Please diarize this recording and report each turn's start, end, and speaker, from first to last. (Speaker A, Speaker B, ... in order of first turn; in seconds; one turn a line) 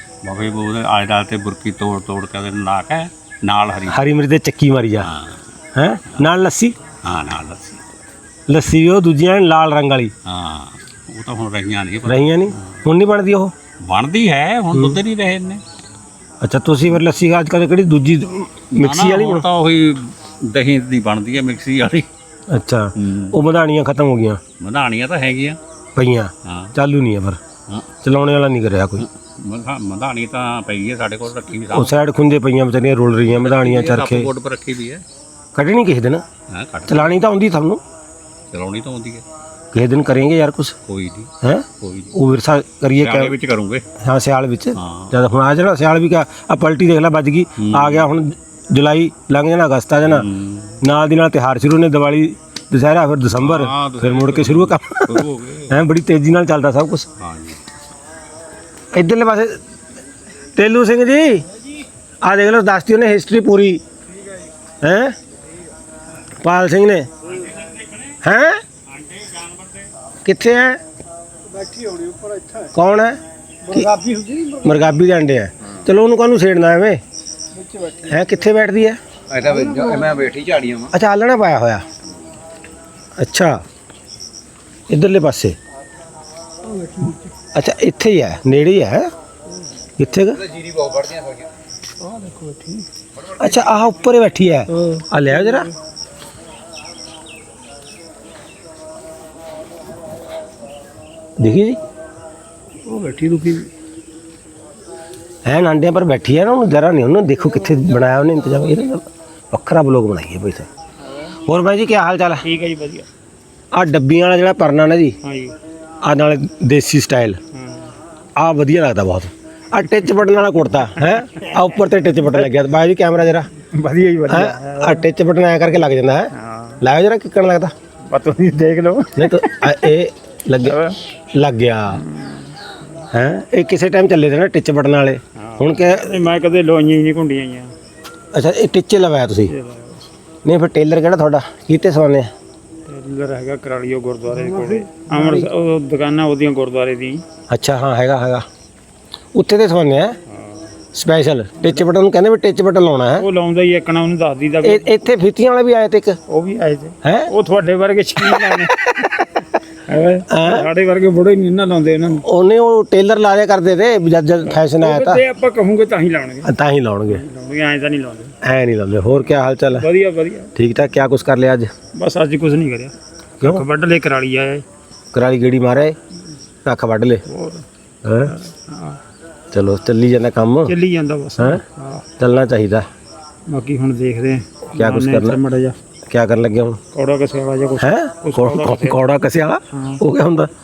Speaker A: 0.2-4.0
Speaker B: 3.9-5.1
Speaker A: 5.0-5.4
Speaker B: 5.7-6.7
Speaker A: 7.0-7.8
Speaker B: 8.5-10.1
Speaker A: 10.2-12.8
Speaker B: 12.0-13.5
Speaker A: 13.8-15.6
Speaker B: 14.7-15.0
Speaker B: 16.4-19.4
Speaker A: 18.8-22.1
Speaker B: 22.5-24.4
Speaker A: 23.0-23.3
Speaker A: 24.6-25.6
Speaker B: 25.9-27.4
Speaker A: 26.4-26.7
Speaker B: 28.0-29.0
Speaker A: 29.0-31.9
Speaker B: 31.7-34.3
Speaker A: 33.3-35.0
Speaker B: 35.5-36.2
Speaker A: 36.5-37.1
Speaker B: 36.9-37.8
Speaker A: 38.5-39.2
Speaker B: 39.7-40.7
Speaker A: 40.9-41.3
Speaker B: 41.4-43.3
Speaker A: 41.8-42.1
Speaker A: 43.0-43.8
Speaker B: 44.0-50.2
Speaker A: 44.8-45.1
Speaker A: 47.6-48.1
Speaker A: 50.0-50.8
Speaker B: 50.8-57.1
Speaker A: 53.3-55.8
Speaker A: 57.2-57.6
Speaker B: 58.9-59.6
Speaker B: 60.5-61.4
Speaker B: 62.2-63.8
Speaker B: 64.8-65.1
Speaker B: 66.4-67.1
Speaker A: 67.3-68.1
Speaker B: 68.2-68.6
Speaker A: 68.9-69.9
Speaker B: 70.2-70.8
Speaker C: 71.6-72.6
Speaker B: 72.7-73.2
Speaker B: 73.7-74.0
Speaker C: 73.7-74.7
Speaker B: 74.6-77.0
Speaker C: 77.7-78.0
Speaker B: 78.0-79.0
Speaker D: 79.3-80.9
Speaker B: 80.9-81.8
Speaker B: 83.2-83.6
Speaker B: 84.9-85.6
Speaker C: 86.7-87.3
Speaker B: 87.5-89.1
Speaker B: 90.0-90.4
Speaker D: 90.3-91.5
Speaker C: 92.0-92.9
Speaker D: 93.1-93.8
Speaker B: 93.4-95.7
Speaker C: 94.7-95.7
Speaker B: 101.4-101.8
Speaker C: 102.8-103.7
Speaker B: 105.4-110.7
Speaker B: 111.4-112.4
Speaker C: 112.4-113.1
Speaker B: 113.7-115.2
Speaker C: 115.2-115.5
Speaker B: 116.0-117.4
Speaker C: 117.5-117.9
Speaker B: 118.4-123.5
Speaker C: 121.1-121.6
Speaker C: 123.6-125.1
Speaker B: 124.3-127.7
Speaker C: 126.3-126.8
Speaker C: 128.1-129.9
Speaker B: 129.2-132.0
Speaker C: 130.6-131.0
Speaker C: 131.9-133.0
Speaker B: 133.1-136.2
Speaker C: 135.4-137.7
Speaker B: 138.3-139.5
Speaker C: 139.5-140.0
Speaker B: 140.4-142.3
Speaker C: 142.9-147.2
Speaker B: 145.1-145.4
Speaker B: 147.5-148.4
Speaker B: 149.3-150.2
Speaker C: 150.4-150.7
Speaker B: 150.9-153.2
Speaker C: 153.2-154.9
Speaker B: 154.6-156.2
Speaker C: 156.3-158.8
Speaker B: 157.0-157.3
Speaker B: 158.2-159.4
Speaker C: 159.9-162.2
Speaker B: 160.3-160.7
Speaker B: 162.2-165.2
Speaker C: 164.4-166.5
Speaker B: 166.4-167.2
Speaker C: 167.1-168.3
Speaker B: 168.4-169.9
Speaker C: 169.7-170.5
Speaker B: 170.5-171.7
Speaker C: 171.9-174.6
Speaker B: 175.1-176.0
Speaker B: 176.6-177.2
Speaker C: 177.3-177.6
Speaker B: 178.0-178.3
Speaker C: 178.3-179.0
Speaker B: 179.5-180.7
Speaker C: 180.7-182.0
Speaker B: 181.4-181.6
Speaker B: 182.2-182.8
Speaker C: 183.5-185.7
Speaker B: 184.7-185.4
Speaker B: 186.1-186.8
Speaker C: 186.9-189.1
Speaker B: 187.8-190.5
Speaker C: 189.7-190.0